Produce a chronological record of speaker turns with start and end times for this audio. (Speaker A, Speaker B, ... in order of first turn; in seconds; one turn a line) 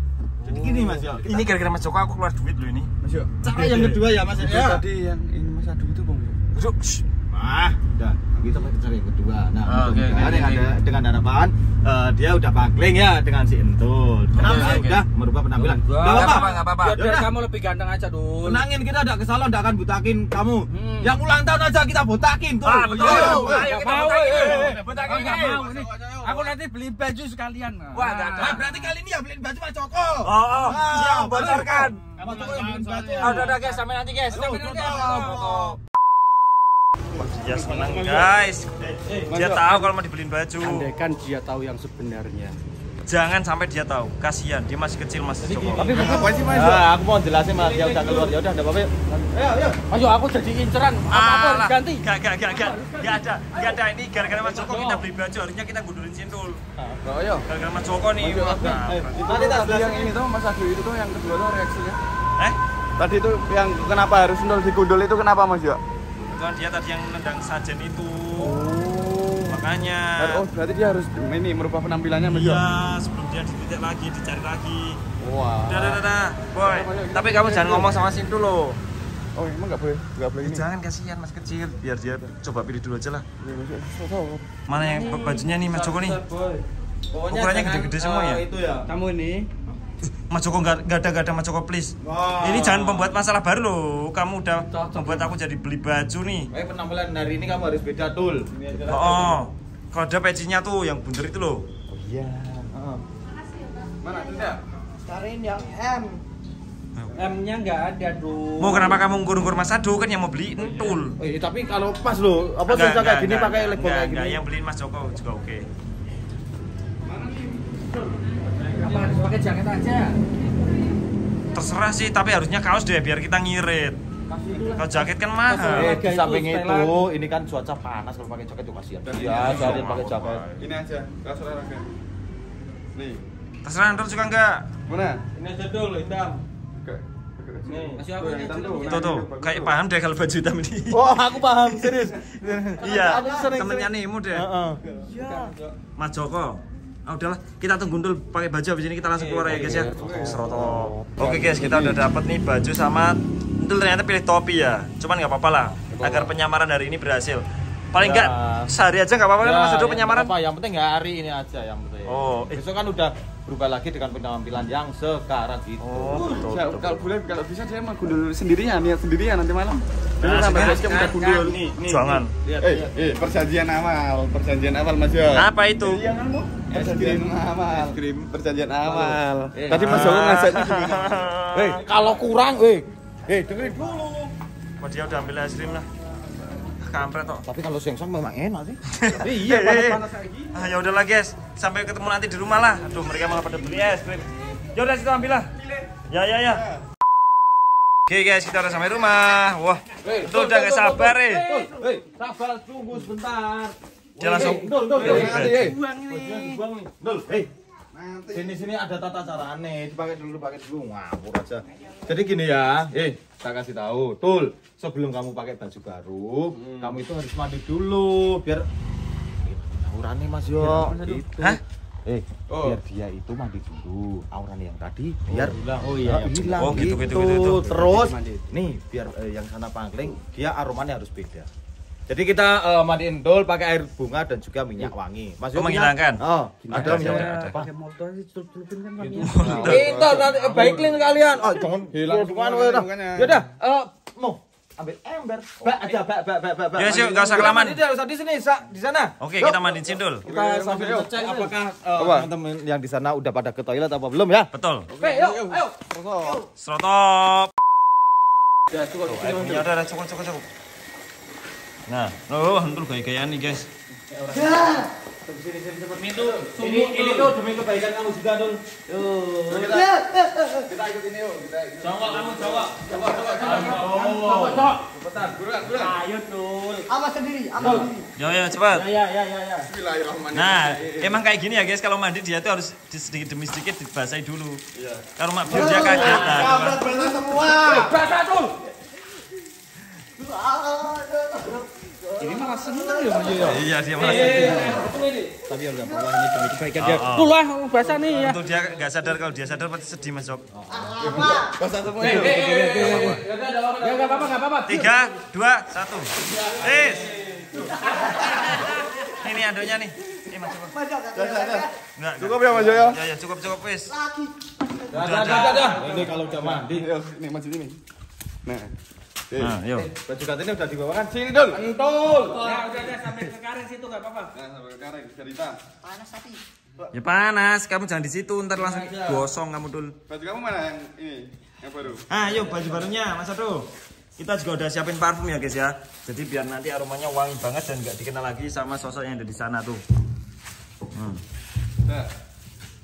Speaker A: 0.4-1.1
Speaker B: 0.4-1.3
Speaker C: 1.2-2.9
Speaker D: 3.0-3.4
Speaker B: 3.4-4.8
Speaker C: 3.5-3.9
Speaker D: 4.3-6.4
Speaker C: 6.5-7.0
Speaker B: 7.3-17.3
Speaker D: 8.4-8.6
Speaker C: 9.6-10.6
Speaker A: 10.1-10.6
Speaker C: 14.3-15.0
Speaker A: 14.4-14.8
Speaker A: 15.6-18.6
Speaker C: 16.0-17.0
Speaker B: 18.4-25.4
Speaker A: 20.7-21.1
Speaker C: 22.6-24.6
Speaker A: 22.9-28.7
Speaker D: 22.9-26.5
Speaker C: 27.9-28.6
Speaker B: 28.4-33.5
Speaker C: 30.2-32.0
Speaker D: 32.1-32.9
Speaker A: 33.1-35.8
Speaker C: 33.2-34.6
Speaker B: 34.3-35.8
Speaker D: 37.1-38.3
Speaker C: 37.1-40.9
Speaker D: 39.3-39.9
Speaker A: 40.6-42.6
Speaker C: 43.1-46.0
Speaker A: 45.4-46.6
Speaker D: 45.8-46.9
Speaker B: 45.8-49.8
Speaker A: 47.5-48.3
Speaker A: 49.9-53.8
Speaker C: 51.1-56.6
Speaker A: 54.3-55.0
Speaker D: 57.0-57.5
Speaker C: 57.5-59.1
Speaker D: 58.2-62.0
Speaker B: 58.7-60.1
Speaker D: 63.0-65.8
Speaker C: 66.3-68.7
Speaker D: 68.4-69.6
Speaker C: 69.5-70.4
Speaker D: 70.2-72.6
Speaker C: 72.3-75.0
Speaker D: 75.2-76.0
Speaker C: 75.6-78.8
Speaker D: 76.6-78.0
Speaker D: 79.3-80.7
Speaker C: 80.4-83.2
Speaker D: 83.4-84.5
Speaker C: 84.7-86.2
Speaker A: 84.8-86.6
Speaker B: 87.1-88.9
Speaker C: 87.3-88.4
Speaker A: 88.9-89.5
Speaker C: 90.3-96.5
Speaker B: 92.0-93.1
Speaker A: 94.7-95.3
Speaker B: 96.5-99.4
Speaker C: 98.9-101.7
Speaker B: 101.9-103.0
Speaker D: 104.0-104.6
Speaker E: 105.0-106.2
Speaker C: 107.0-107.2
Speaker A: 107.1-109.0
Speaker C: 108.6-111.2
Speaker B: 111.2-114.4
Speaker C: 112.7-115.7
Speaker D: 117.0-117.6
Speaker A: 118.7-120.1
Speaker C: 121.5-124.0
Speaker A: 124.3-126.9
Speaker C: 124.8-125.9
Speaker B: 125.7-130.4
Speaker D: 129.1-129.9
Speaker C: 129.3-130.7
Speaker D: 130.6-131.9
Speaker D: 132.9-133.2
Speaker C: 133.6-134.7
Speaker D: 134.9-135.2
Speaker D: 136.8-139.8
Speaker B: 137.7-138.1
Speaker A: 137.9-139.1
Speaker C: 138.8-141.0
Speaker B: 140.9-144.8
Speaker C: 142.8-144.5
Speaker E: 142.8-143.6
Speaker A: 144.8-145.7
Speaker E: 145.2-145.5
Speaker C: 146.0-160.3
Speaker D: 149.2-152.0
Speaker A: 149.6-149.8
Speaker D: 155.9-156.3
Speaker B: 158.0-158.7
Speaker B: 159.4-166.3
Speaker C: 162.1-162.6
Speaker C: 165.8-167.1
Speaker D: 166.2-181.2
Speaker C: 170.2-171.0
Speaker A: 170.3-171.7
Speaker C: 171.8-172.3
Speaker B: 172.4-172.9
Speaker C: 175.3-176.1
Speaker B: 176.7-177.3
Speaker B: 178.9-180.2
Speaker A: 179.5-179.9
Speaker C: 179.7-181.8
Speaker B: 181.6-184.1
Speaker D: 183.7-184.0
Speaker C: 184.8-185.8
Speaker C: 186.7-187.4
Speaker B: 187.4-188.8
Speaker C: 188.9-195.5
Speaker A: 189.2-190.5
Speaker D: 195.6-195.9
Speaker C: 196.1-196.6
Speaker D: 196.5-196.8
Speaker C: 198.1-201.4
Speaker D: 200.0-200.4
Speaker A: 200.6-201.8
Speaker B: 201.4-207.5
Speaker C: 204.2-205.6
Speaker A: 204.2-206.6
Speaker D: 204.9-205.8
Speaker D: 207.9-208.5
Speaker B: 208.3-218.7
Speaker D: 216.5-216.9
Speaker B: 219.4-221.5
Speaker A: 220.6-221.5
Speaker B: 222.1-231.5
Speaker D: 222.5-222.8
Speaker A: 225.3-228.4
Speaker C: 226.6-227.6
Speaker B: 232.1-237.7
Speaker C: 235.5-237.6
Speaker A: 236.6-240.9
Speaker D: 239.0-240.7
Speaker C: 239.2-240.1
Speaker B: 239.3-254.5
Speaker D: 241.9-243.4
Speaker C: 246.8-247.8
Speaker C: 249.2-250.2
Speaker D: 250.2-251.1
Speaker A: 250.2-251.6
Speaker D: 251.9-252.3
Speaker C: 254.5-254.9
Speaker D: 254.9-256.4
Speaker A: 255.0-256.3
Speaker C: 256.6-257.5
Speaker C: 259.1-260.4
Speaker B: 259.2-259.4
Speaker C: 261.9-263.7
Speaker B: 264.1-269.8
Speaker E: 264.3-264.9
Speaker D: 266.2-266.6
Speaker A: 266.6-267.3
Speaker D: 269.5-269.9
Speaker E: 269.6-270.7
Speaker D: 270.7-273.9
Speaker B: 271.8-274.7
Speaker A: 272.9-274.8
Speaker D: 274.9-276.0
Speaker B: 275.8-276.9
Speaker E: 276.9-278.0
Speaker B: 277.6-277.9
Speaker C: 278.2-278.9
Speaker B: 278.7-279.7
Speaker D: 279.7-281.2
Speaker C: 280.3-284.6
Speaker D: 284.8-288.0
Speaker C: 285.2-286.9
Speaker E: 285.5-287.3
Speaker A: 287.6-288.6
Speaker E: 290.1-293.7
Speaker A: 292.2-295.4
Speaker C: 293.4-294.8
Speaker B: 294.0-297.1
Speaker D: 294.1-294.6
Speaker E: 294.5-295.0
Speaker E: 295.8-296.2
Speaker A: 296.4-298.4
Speaker C: 296.8-297.3
Speaker C: 298.1-300.4
Speaker B: 300.5-301.4
Speaker E: 300.7-301.5
Speaker D: 301.0-303.2
Speaker A: 302.0-303.2
Speaker B: 302.0-304.2
Speaker A: 303.8-305.0
Speaker C: 304.6-307.2
Speaker D: 306.3-307.8
Speaker E: 307.6-308.6
Speaker C: 308.1-310.7
Speaker E: 310.6-311.8
Speaker D: 311.1-311.6
Speaker C: 312.0-313.9
Speaker D: 312.2-313.0
Speaker E: 313.9-316.2
Speaker B: 314.9-316.9
Speaker C: 314.9-315.7
Speaker D: 315.7-317.8
Speaker D: 318.4-318.7
Speaker D: 319.3-319.6
Speaker C: 319.4-319.9
Speaker B: 319.9-321.1
Speaker D: 321.1-322.9
Speaker A: 322.1-324.3
Speaker D: 324.3-325.6
Speaker E: 325.8-326.4
Speaker C: 326.9-329.9
Speaker D: 328.8-329.2
Speaker D: 330.1-332.1
Speaker C: 332.1-339.8
Speaker C: 340.9-341.2